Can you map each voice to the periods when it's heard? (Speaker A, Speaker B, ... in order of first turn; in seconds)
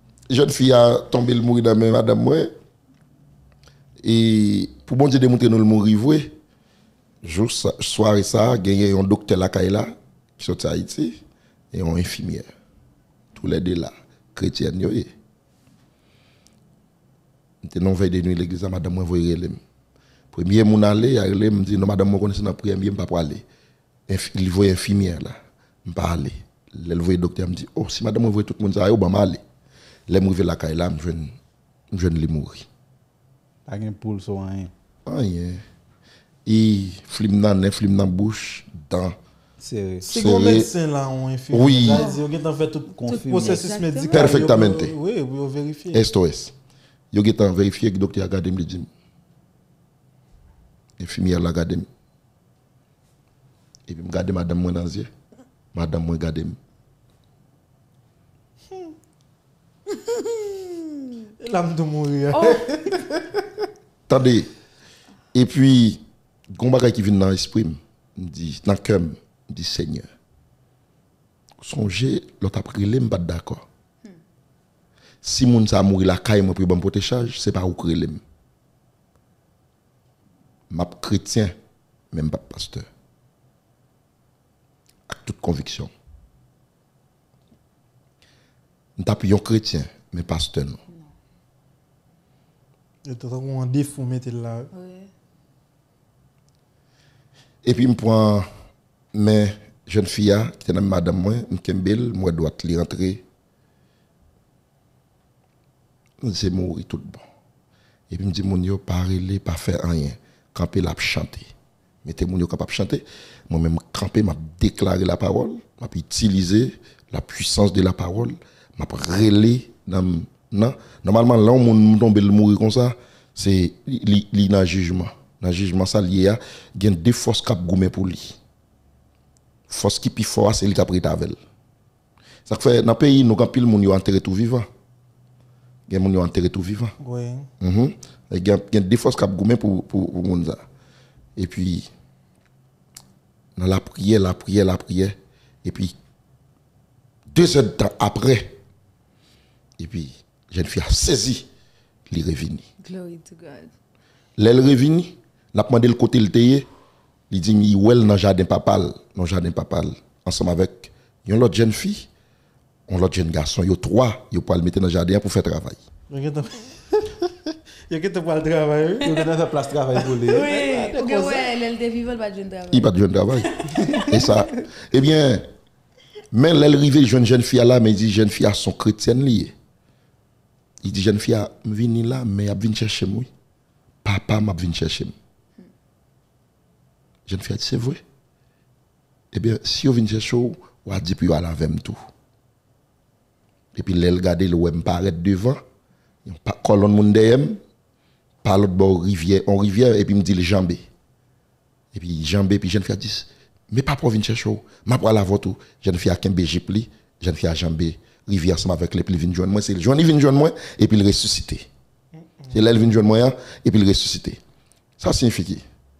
Speaker A: 0.3-2.5, 4.0-6.3, 7.2-11.2, 11.7-12.5, 13.3-15.1, 17.6-19.6, 20.3-23.4, 24.1-29.4, 30.1-31.3, 31.9-32.6, 35.0-35.6, 36.5-39.2, 40.0-40.7, 41.5-42.1, 44.1-44.9, 45.9-46.5, 47.1-48.9, 51.0-51.9, 53.9-55.1, 55.7-56.6, 64.1-64.5, 65.3-70.1, 71.6-73.6, 75.2-78.2, 80.7-81.5, 82.1-82.9, 85.1-85.9, 89.0-90.8, 97.6-98.5, 99.1-103.2, 106.2-107.2, 108.1-111.5, 112.0-128.4, 129.7-131.4, 132.4-134.7, 135.9-136.9, 137.6-140.6, 141.3-141.9, 143.6-145.9, 147.3-148.6, 149.8-151.5, 152.1-152.6, 154.4-156.7, 157.3-162.1, 162.9-165.8, 172.7-173.5, 174.1-175.4, 176.3-179.5, 180.8-183.3, 184.0-185.1, 187.3-188.0, 189.3-192.0, 193.7-195.6, 196.2-197.6, 198.4-200.8, 201.9-211.7, 212.5-214.4, 215.0-215.6
Speaker B: 33.6-34.7, 39.6-40.1, 42.9-43.8, 169.0-170.5
Speaker C: 40.1-46.0, 61.4-63.4, 93.0-94.7, 137.0-137.5, 166.1-169.3, 170.2-171.5
Speaker D: 41.9-42.2, 43.1-44.3, 59.9-61.1, 62.3-62.6, 94.7-95.1, 152.8-153.7, 170.3-174.4